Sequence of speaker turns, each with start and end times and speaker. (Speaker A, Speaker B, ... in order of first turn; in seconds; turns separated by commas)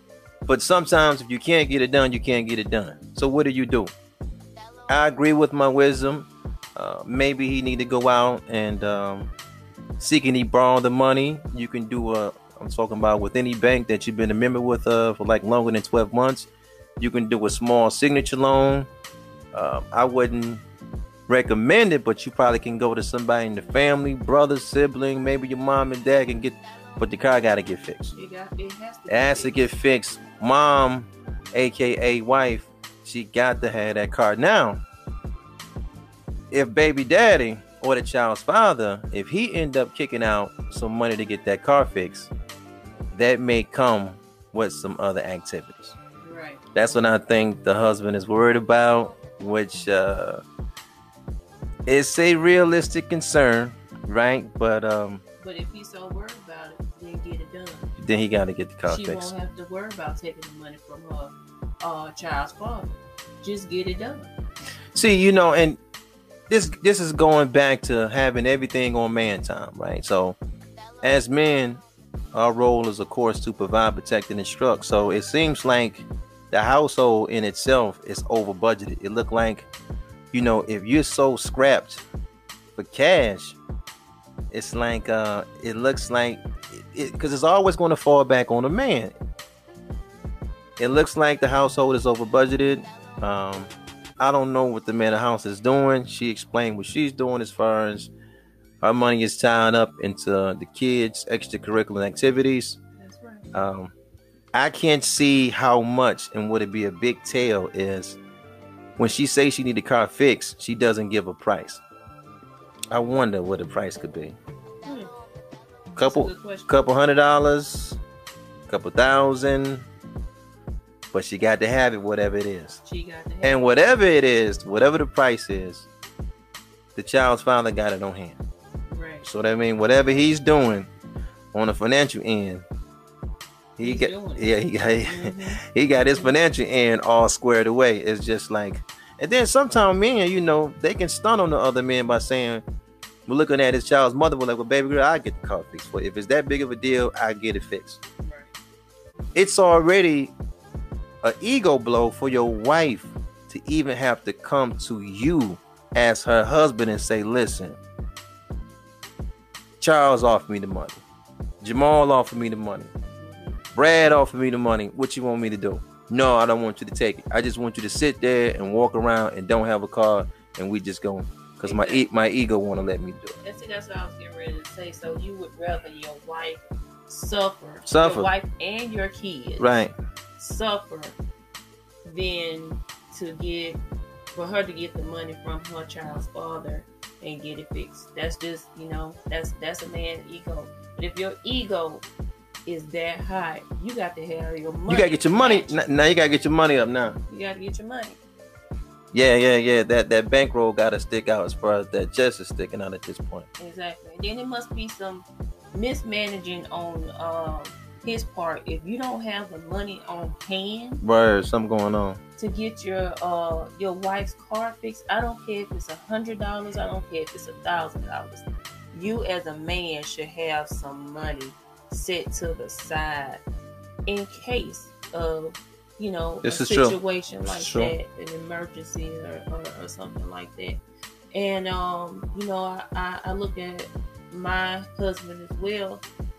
Speaker A: 0.5-3.9, Speaker A: 4.9-9.3, Speaker A: 10.0-18.9, Speaker A: 19.5-20.6, Speaker A: 21.3-28.1, Speaker B: 28.1-29.7, Speaker A: 29.1-34.8, Speaker A: 36.5-42.3, Speaker A: 43.1-46.0, Speaker B: 46.2-46.7, Speaker A: 46.8-50.4, Speaker A: 51.9-55.2, Speaker B: 55.4-57.9, Speaker A: 58.0-59.3, Speaker B: 58.9-64.3, Speaker A: 64.9-65.8, Speaker A: 66.5-70.4, Speaker A: 71.0-71.8, Speaker A: 72.3-79.7, Speaker A: 80.3-82.0, Speaker A: 82.8-83.6, Speaker A: 84.5-89.1, Speaker A: 90.8-98.1, Speaker A: 98.8-102.8, Speaker B: 103.0-103.5, Speaker A: 103.5-103.9, Speaker A: 104.5-108.2, Speaker A: 109.0-111.8, Speaker A: 112.9-114.4, Speaker B: 114.8-115.1, Speaker A: 116.0-118.0, Speaker B: 116.0-116.8, Speaker A: 118.7-119.9, Speaker A: 121.1-122.8, Speaker B: 122.8-123.7, Speaker A: 123.4-125.9, Speaker A: 127.0-128.4, Speaker B: 128.9-129.3, Speaker A: 129.2-130.9, Speaker A: 131.5-132.7, Speaker A: 133.8-142.6, Speaker B: 133.8-136.4, Speaker A: 143.3-148.0, Speaker B: 148.2-148.5, Speaker A: 149.3-150.3, Speaker A: 151.2-157.8, Speaker A: 159.8-161.0, Speaker A: 161.6-162.9, Speaker B: 163.2-163.6, Speaker A: 163.8-173.4, Speaker B: 171.6-172.1, Speaker B: 173.4-179.8, Speaker A: 177.9-178.3, Speaker A: 179.6-179.9, Speaker B: 180.4-181.2, Speaker B: 182.0-183.8, Speaker B: 184.3-192.1, Speaker B: 192.7-195.8, Speaker A: 194.9-197.2, Speaker B: 197.3-198.2, Speaker A: 199.1-203.5, Speaker B: 203.6-211.0, Speaker A: 211.0-212.2, Speaker B: 212.4-223.4, Speaker B: 224.1-230.8, Speaker A: 226.4-227.9, Speaker B: 231.3-236.0